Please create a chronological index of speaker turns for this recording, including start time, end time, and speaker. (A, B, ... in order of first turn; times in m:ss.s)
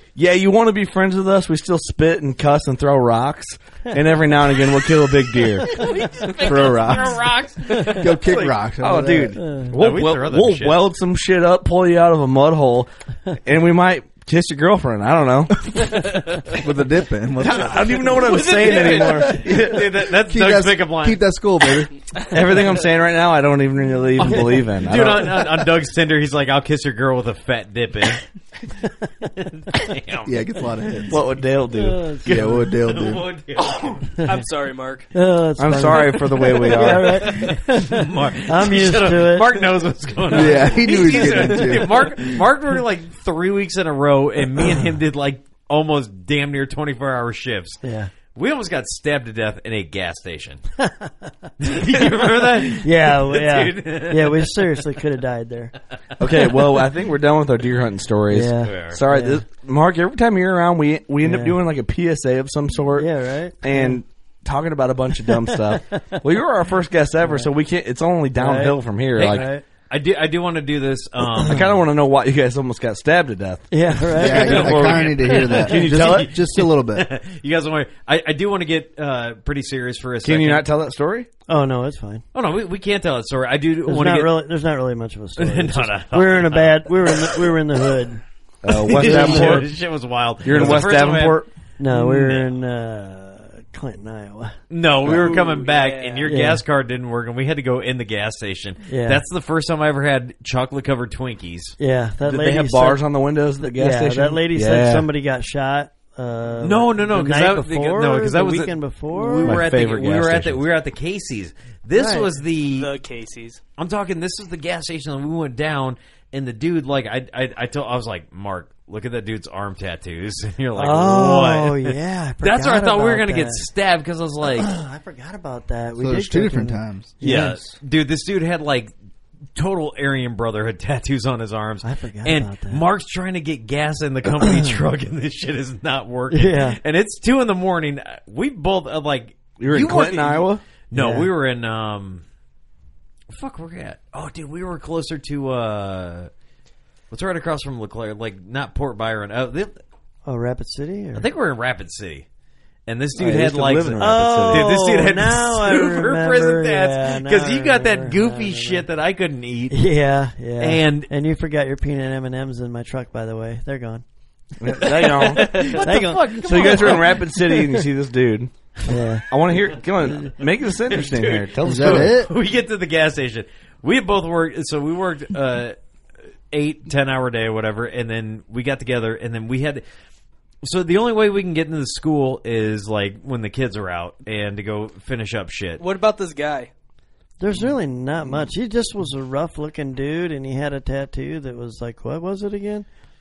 0:00.2-0:05.8 A
0:05.6-0:08.5 B
0:06.5-0:07.3 C
0:07.8-0:09.4 C
0:08.3-0:12.9 A
0:09.4-0:09.7 D
0:09.7-0:10.8 B
0:13.4-0:16.1 A
0:16.5-0:18.4 C
0:17.4-0:19.9 A
0:18.2-0:19.2 E
0:19.0-0:21.9 C
0:19.3-0:21.8 B
0:22.3-0:25.5 A
0:24.2-0:28.2 B
0:29.7-0:30.3 B
0:30.3-0:31.2 C
0:31.1-0:32.6 A
0:31.8-0:32.6 D
0:32.2-0:33.2 C
0:32.7-0:34.2 B
0:34.2-0:35.1 E
0:35.1-0:39.5 D
0:35.6-0:37.3 A
0:36.8-0:47.8 B
0:40.3-0:42.4 C
0:47.8-0:48.1 D
0:48.4-0:50.6 B
0:50.8-0:51.1 D
0:51.6-0:54.6 B
0:52.7-0:55.7 D
0:56.2-1:03.1 A
0:58.3-0:59.4 D
0:58.6-0:59.0 B
1:01.2-1:01.6 D
1:03.0-1:04.0 D
1:03.6-1:09.5 A
1:05.5-1:06.0 D
1:08.4-1:09.6 D
1:09.2-1:11.7 B
1:11.4-1:16.3 A
1:13.7-1:15.0 D
1:14.2-1:17.1 C
1:14.3-1:20.6 B
1:20.2-1:21.3 A
1:21.5-1:22.2 D
1:22.3-1:24.3 B
1:23.9-1:28.2 D
1:25.4-1:27.4 B
1:28.6-1:29.7 A
1:28.7-1:32.5 B
1:28.9-1:29.7 D
1:30.4-1:31.5 A
1:30.5-1:30.8 D
1:31.8-1:34.6 D
1:34.7-1:41.8 B
1:35.0-1:35.4 A
1:35.1-1:36.4 E
1:36.2-1:36.6 D
1:38.9-1:39.2 D
1:41.8-1:43.0 D
1:42.2-1:45.1 A
1:43.6-1:49.6 D
1:46.6-1:52.9 B
1:49.4-1:50.6 A
1:52.0-1:52.3 D
1:52.7-1:53.6 E
1:53.8-2:04.7 B
2:00.8-2:03.6 D
2:04.4-2:07.7 D
2:06.0-2:07.2 C
2:07.2-2:08.9 B
2:09.6-2:22.2 B
2:11.8-2:12.8 D
2:14.4-2:14.7 D
2:16.3-2:16.8 D
2:19.6-2:20.6 A
2:20.9-2:21.3 D
2:23.3-2:26.3 B
2:27.1-2:29.8 B
2:30.3-2:31.2 D
2:31.2-2:32.2 B
2:32.9-2:39.8 B
2:33.2-2:34.7 A
2:34.0-2:38.9 D
2:39.7-2:44.0 D
2:40.6-2:41.1 B
2:44.6-2:48.5 A
2:45.0-2:47.2 B
2:45.4-2:45.8 E
2:45.7-2:47.1 D
2:48.8-2:49.3 D
2:49.3-2:52.2 A
2:50.9-2:55.8 B
2:51.6-2:52.3 C
2:56.5-2:59.8 B
3:00.6-3:05.8 B
3:05.8-3:06.7 E
3:07.4-3:12.9 D